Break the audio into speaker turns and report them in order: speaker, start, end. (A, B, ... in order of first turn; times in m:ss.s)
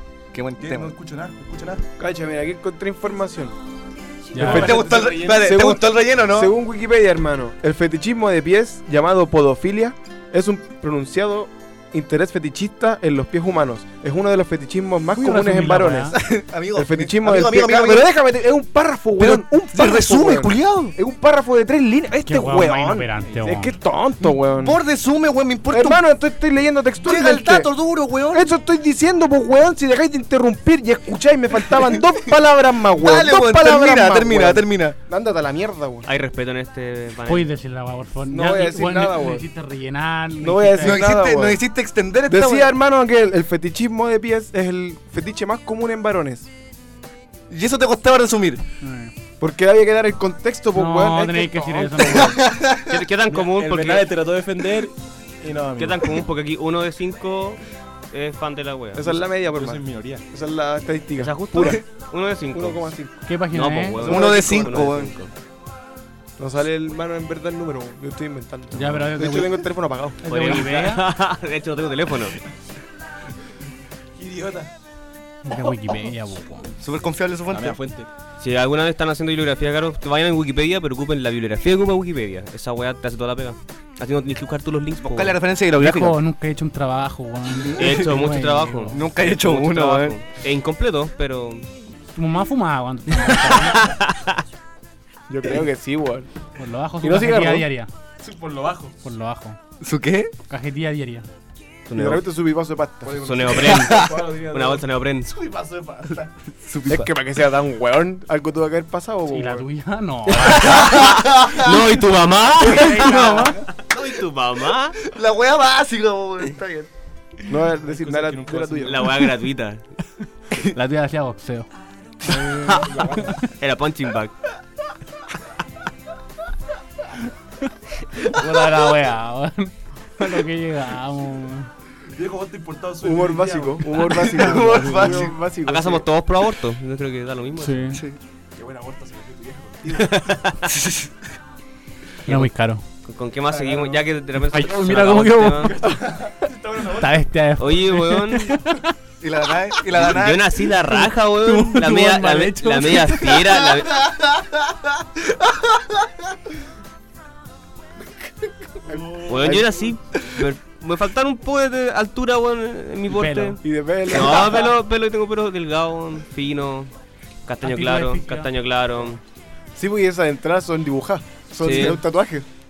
0:00.3-0:01.0 A
0:00.6-0:01.8 B
0:02.0-0:03.6 C
0:04.3-0:04.7 D
0:04.4-0:05.6 B
0:04.4-0:24.8 C
0:04.4-0:06.6 A
0:15.2-0:16.2 D
0:16.2-0:18.1 A
0:19.2-0:20.9 A
0:22.3-0:23.7 D
0:24.5-0:26.0 A
0:25.7-0:27.7 C
0:27.0-0:28.5 A
0:28.3-0:36.1 C
0:33.0-0:35.0 A
0:36.1-0:37.5 E
0:37.3-0:41.0 D
0:38.3-0:39.5 C
0:40.4-0:41.6 C
0:40.8-0:42.7 A
0:42.3-0:46.5 C
0:47.5-0:48.6 A
0:48.8-0:49.1 D
0:49.4-0:52.4 C
0:50.7-0:52.4 D
0:52.2-0:53.0 A
0:52.9-0:54.1 E
0:53.3-0:56.2 B
0:55.8-0:57.6 E
0:58.1-0:59.1 E
0:59.0-1:01.8 C
0:59.5-1:00.2 B
1:01.2-1:02.9 E
1:02.5-1:03.2 C
1:03.3-1:04.1 D
1:03.5-1:05.3 E
1:04.0-1:05.2 A
1:06.4-1:10.2 C
1:08.7-1:09.7 D
1:10.2-1:11.1 D
1:10.3-1:12.4 E
1:14.2-1:14.7 B
1:15.4-1:16.7 D
1:16.8-1:17.8 A
1:17.5-1:18.1 B
1:18.4-1:25.4 E
1:25.0-1:26.2 A
1:25.8-1:29.1 D
1:27.7-1:28.0 A
1:27.8-1:31.7 E
1:28.9-1:30.2 A
1:32.2-1:33.9 D
1:33.7-1:34.4 E
1:35.3-1:36.3 C
1:36.6-1:37.9 D
1:37.0-1:37.7 C
1:38.2-1:39.0 B
1:39.0-1:39.6 D
1:39.8-1:40.3 A
1:40.5-1:41.3 D
1:41.9-1:42.2 E
1:41.9-1:43.3 C
1:43.0-1:46.3 B
1:43.2-1:45.3 E
1:43.6-1:44.3 A
1:46.6-1:47.0 A
1:46.9-1:49.7 C
1:49.3-1:50.9 D
1:50.5-1:55.0 E
1:50.8-1:51.7 A
1:52.6-1:53.6 D
1:53.3-1:53.6 B
1:55.0-1:56.9 A
1:57.5-1:59.1 C
1:57.8-1:59.1 B
1:58.8-1:59.9 E
2:00.6-2:01.7 D
2:02.3-2:03.4 B
2:02.7-2:03.4 D
2:03.6-2:04.3 E
2:08.2-2:11.7 D
2:12.1-2:15.1 B
2:13.0-2:16.1 C
2:14.1-2:15.4 A
2:15.6-2:18.0 E
2:17.6-2:18.0 D
2:17.9-2:18.2 A
2:18.6-2:20.3 B
2:20.0-2:20.7 E
2:20.7-2:21.1 A
2:22.3-2:22.5 E
2:22.3-2:22.8 D
2:23.0-2:25.7 E
2:23.5-2:24.0 B
2:24.4-2:28.9 D
2:25.6-2:27.2 B
2:27.6-2:28.5 E
2:29.2-2:30.5 A
2:29.9-2:34.0 E
2:30.9-2:33.5 D
2:38.9-2:39.6 B
2:38.9-2:39.8 C
2:39.3-2:46.9 E
2:43.1-2:43.6 D
2:43.6-2:44.7 C
2:47.5-2:49.2 E
2:47.6-2:48.5 D
2:49.8-2:52.5 C
2:51.6-2:52.0 E